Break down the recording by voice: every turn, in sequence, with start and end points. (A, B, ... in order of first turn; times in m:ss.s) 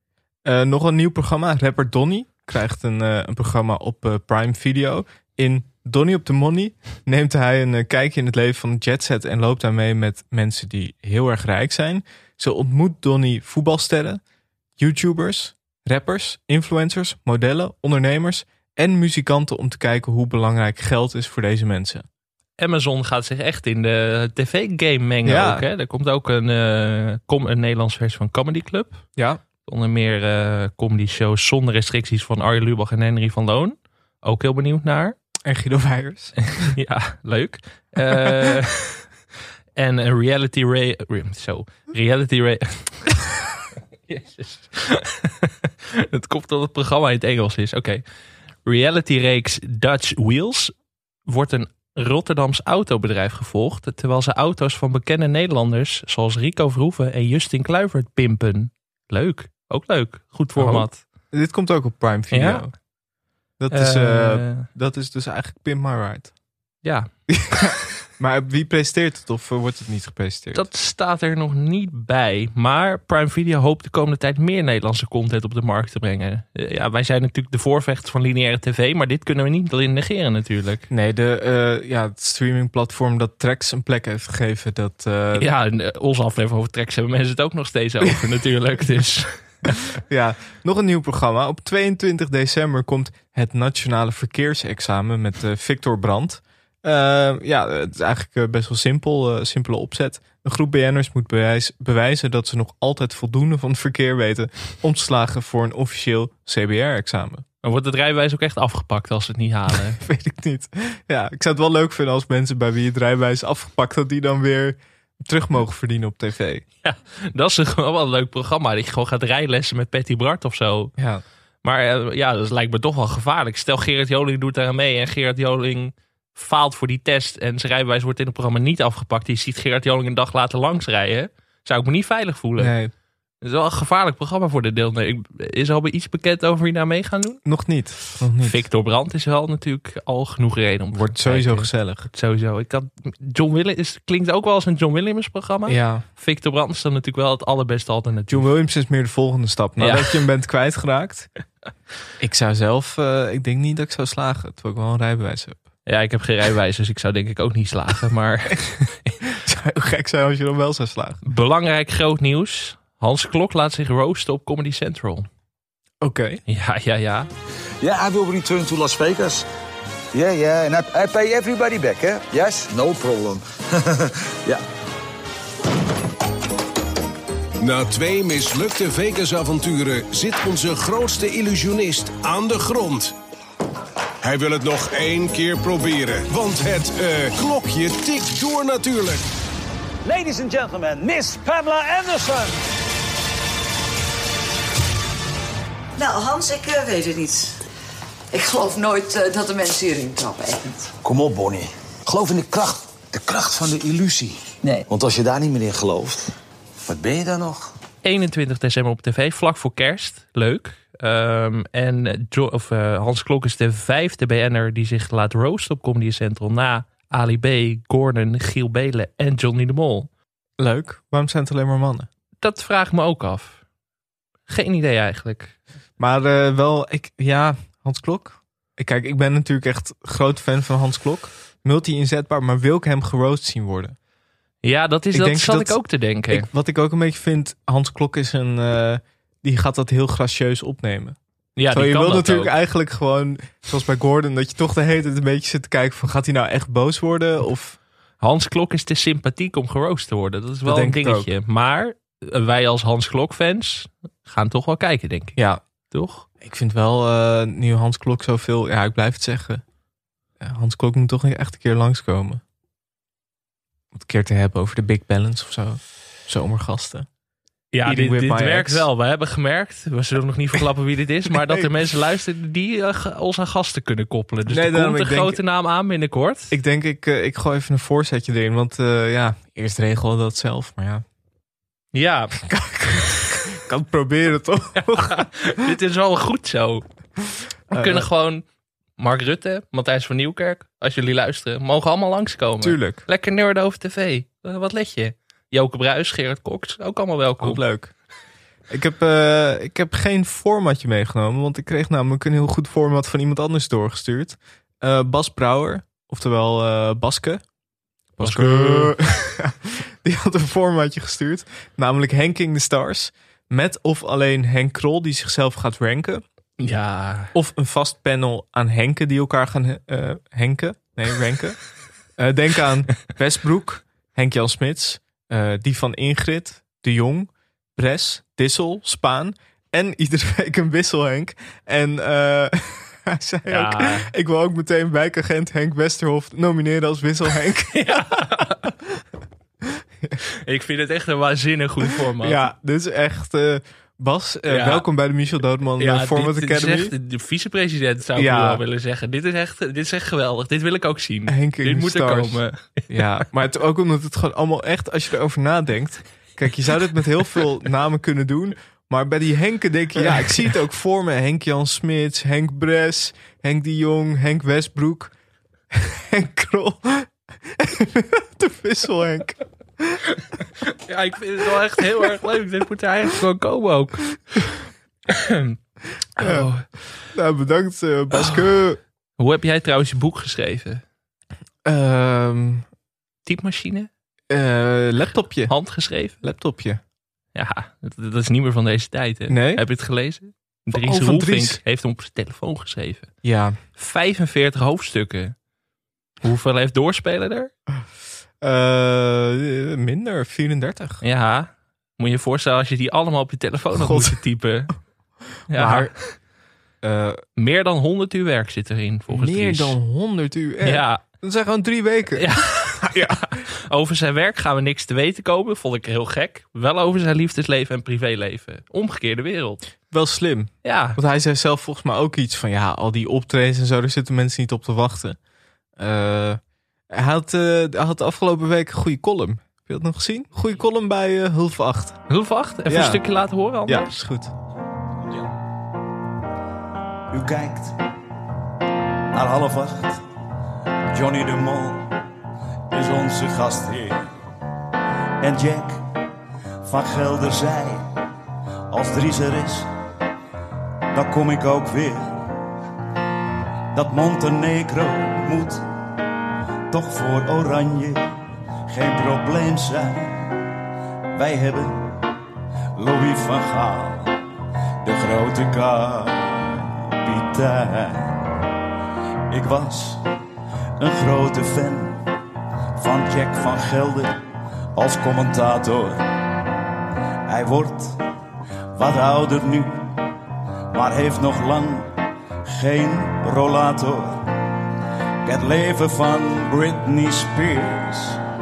0:00.4-0:14.2 A
0:14.8-0:22.0 A
0:22.6-0:29.0 B
0:25.2-0:25.6 A
0:29.6-0:35.2 B
0:35.4-0:36.4 A
0:36.6-0:39.0 B
0:38.0-0:38.6 A
0:39.8-0:43.2 B
0:44.1-0:48.0 B
0:48.7-0:50.7 B
0:51.3-1:01.0 B
1:00.6-1:02.7 A
1:02.3-1:02.7 B
1:03.6-1:06.3 A
1:03.7-1:04.7 B
1:06.8-1:07.1 B
1:07.3-1:10.7 A
1:10.5-1:20.9 B
1:20.9-1:25.5 A
1:25.4-1:29.8 B
1:29.9-1:47.4 A
1:47.6-1:50.0 B
1:49.9-1:56.6 A
1:56.8-2:00.9 B
2:01.0-2:01.2 A
2:01.6-2:12.8 B
2:12.6-2:12.9 A
2:13.4-2:17.4 B
2:17.4-2:18.6 A
2:18.4-2:28.5 B
2:20.9-2:22.1 A
2:25.7-2:26.0 A
2:28.3-2:31.3 A
2:29.8-2:30.2 B
2:32.2-2:35.6 A
2:35.9-2:39.1 B
2:39.3-2:41.2 A
2:41.2-2:45.3 B
2:46.0-2:46.4 A
2:46.5-2:47.3 B
2:47.8-2:49.4 C
2:50.1-2:54.6 C
2:57.6-3:03.2 D
3:04.2-3:09.2 D
3:10.0-3:12.6 E
3:16.0-3:17.6 F
3:18.3-3:20.9 F
3:21.0-3:26.3 C
3:26.9-3:27.7 C
3:28.0-3:40.1 B
3:40.6-3:42.1 A
3:42.4-3:43.6 B
3:44.5-3:45.6 B
3:46.0-3:54.0 A
3:54.6-3:56.5 B
3:55.1-4:01.2 A
4:01.6-4:02.6 B
4:01.7-4:07.8 A
4:08.2-4:16.3 B
4:10.7-4:11.3 A
4:15.4-4:15.6 A
4:16.4-4:19.6 A
4:20.4-4:22.4 A
4:23.9-4:27.1 A
4:27.7-4:36.5 B
4:27.8-4:28.9 A
4:31.4-4:31.7 A
4:34.5-4:35.4 A
4:36.5-4:41.0 A
4:41.9-4:42.4 B
4:42.4-4:45.3 A
4:44.8-4:46.8 B
4:47.7-4:48.1 A
4:47.7-4:48.4 B
4:49.0-4:57.6 B
4:52.6-4:53.0 A
4:57.4-4:57.9 A
4:58.7-5:07.4 A
5:08.2-5:16.2 A
5:08.2-5:09.0 B
5:16.6-5:17.3 B
5:17.3-5:21.6 A
5:22.2-5:38.7 A
5:33.5-5:34.1 B
5:37.7-5:38.6 B
5:40.4-5:42.5 B
5:42.2-5:46.9 A
5:44.5-5:44.8 B
5:45.8-5:52.8 B
5:48.2-5:48.6 A
5:51.3-6:05.1 A
6:05.7-6:10.0 A
6:10.6-6:14.2 B
6:15.1-6:15.6 B
6:16.2-6:16.5 A
6:16.2-6:16.7 B
6:17.1-6:18.8 A
6:18.2-6:18.4 B
6:19.2-6:20.8 B
6:21.6-6:22.6 A
6:23.3-6:23.9 B
6:24.3-6:25.5 A
6:25.5-6:26.2 B
6:26.2-6:26.8 A
6:27.4-6:33.1 B
6:29.3-6:29.6 A
6:30.7-6:31.6 A
6:33.2-6:33.6 A
6:33.8-6:35.4 B
6:36.2-6:37.5 B
6:38.4-6:41.0 A
6:41.0-6:44.7 B
6:43.7-6:44.2 A
6:45.5-6:46.0 A
6:45.5-6:46.1 B
6:46.8-6:47.2 A
6:47.4-6:49.8 B
6:49.1-6:53.3 A
6:50.6-6:51.0 B
6:52.2-6:59.7 B
6:59.9-7:05.2 A
7:00.6-7:01.0 B
7:05.8-7:06.4 A
7:06.9-7:12.0 A
7:12.1-7:13.9 B
7:12.7-7:13.0 A
7:13.7-7:14.3 A
7:17.1-7:17.8 G
7:19.1-7:20.0 G
7:20.9-7:21.9 G
7:22.7-7:24.1 G
7:25.2-7:25.8 G
7:26.7-7:27.9 G
7:28.7-7:29.7 G
7:30.9-7:32.2 G
7:33.7-7:35.6 G
7:36.7-7:38.1 G
7:38.7-7:40.3 G
7:41.2-7:41.9 G
7:42.8-7:44.1 G
7:44.8-7:48.3 G
7:49.3-7:50.0 G
7:50.8-7:52.0 G
7:52.8-7:54.2 G
7:54.8-7:56.0 G
7:57.3-7:58.0 G
7:58.8-7:59.9 G
8:00.7-8:01.9 G
8:02.5-8:04.2 G
8:05.2-8:08.2 G